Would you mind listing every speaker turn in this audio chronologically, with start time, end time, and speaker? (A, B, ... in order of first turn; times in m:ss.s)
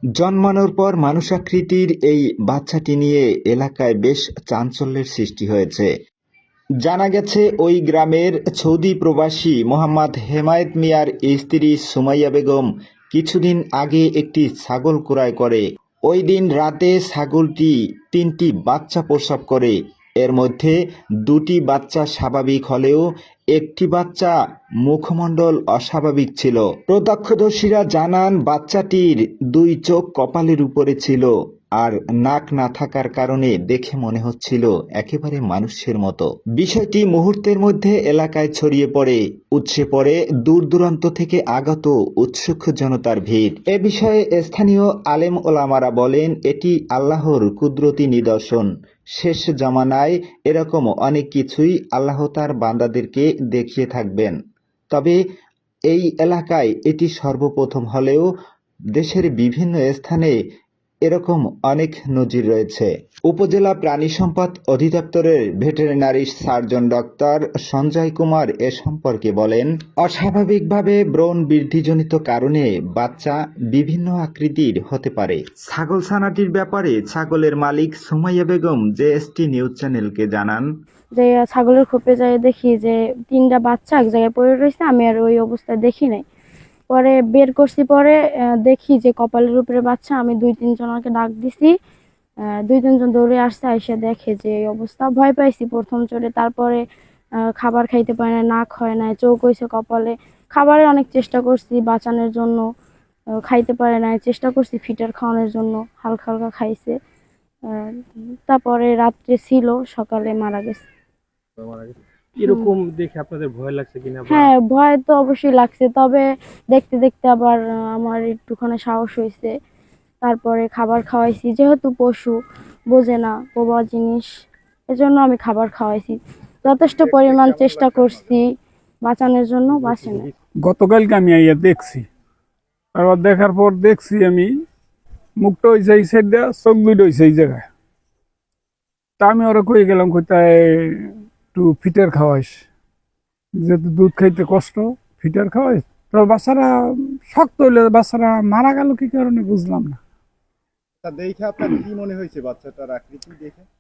0:00.2-0:05.9 A
0:06.8-0:23.0 A
0:23.6-0:24.4 A
0:24.9-0:54.4 A
0:54.9-0:55.2 A
0:55.9-0:58.3 A
0:59.0-1:00.3 A
1:01.1-1:20.7 A
1:21.2-1:26.2 B
1:26.9-1:31.7 B
1:32.7-1:36.8 B
1:37.6-1:42.6 B
1:43.5-1:47.0 B
1:47.7-1:50.9 B
1:51.6-1:54.5 C
1:52.5-1:52.7 B
1:54.3-1:59.5 B
2:00.2-2:02.4 B
2:02.9-2:04.3 B
2:04.9-2:08.5 B
2:09.0-2:10.3 B
2:09.8-2:10.3 C
2:10.6-2:12.1 D
2:12.9-2:14.6 D
2:15.4-2:17.7 D
2:19.2-2:22.6 D
2:23.6-2:30.0 D
2:31.0-2:33.6 E